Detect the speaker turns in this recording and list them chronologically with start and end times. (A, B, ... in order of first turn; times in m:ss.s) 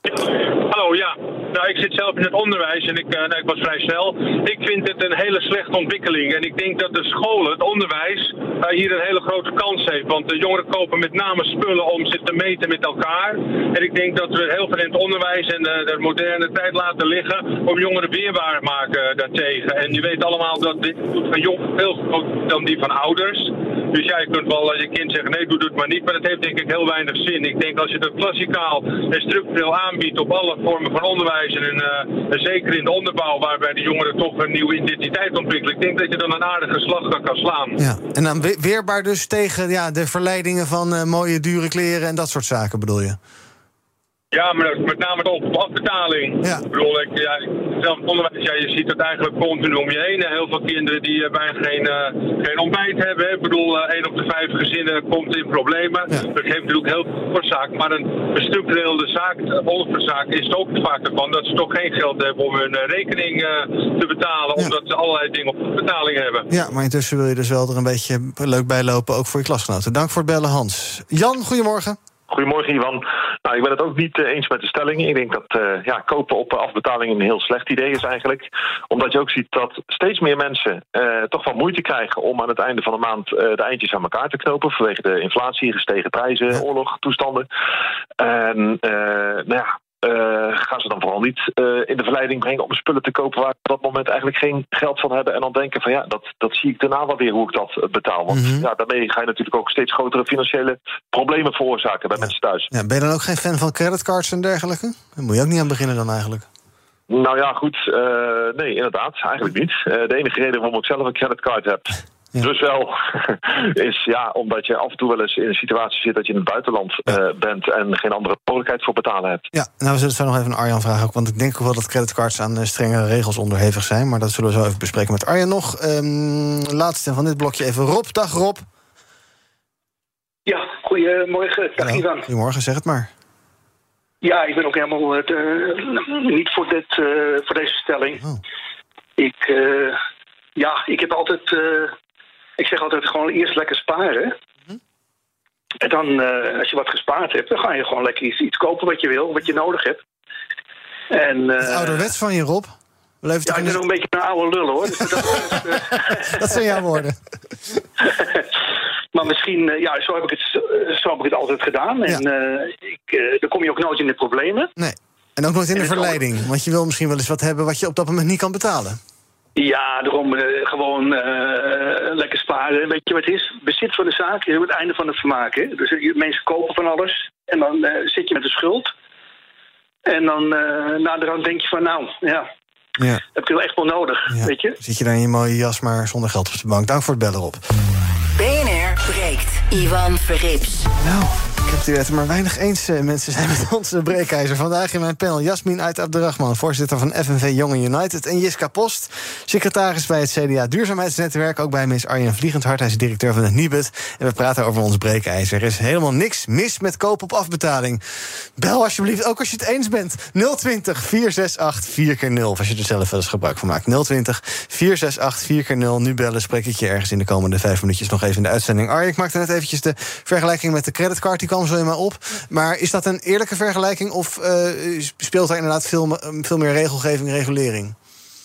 0:00.2-0:37.8 A
0:37.8-0:43.2 B
0:44.3-1:06.5 A
1:06.5-1:12.0 B
1:12.3-1:27.5 C
1:28.2-1:42.7 C
1:38.3-1:38.7 B
1:42.2-1:46.5 B
1:47.1-1:59.5 C
1:59.5-2:08.6 B
2:10.5-2:12.3 D
2:11.8-2:13.1 B
2:14.2-2:18.2 D
2:19.2-2:20.0 D
2:20.6-2:21.9 D
2:22.6-2:24.3 D
2:25.8-2:30.0 D
2:31.1-2:32.1 D
2:31.6-2:33.8 B
2:33.4-2:36.4 D
2:35.7-2:37.2 B
2:38.0-2:38.5 D
2:39.1-2:44.7 D
2:44.8-2:49.0 B
2:45.8-2:46.2 D
2:49.6-2:58.9 D
3:00.1-3:02.4 D
3:03.3-3:04.8 D
3:04.3-3:07.6 B
3:08.4-3:10.9 E
3:11.0-3:28.0 B
3:28.6-3:48.0 B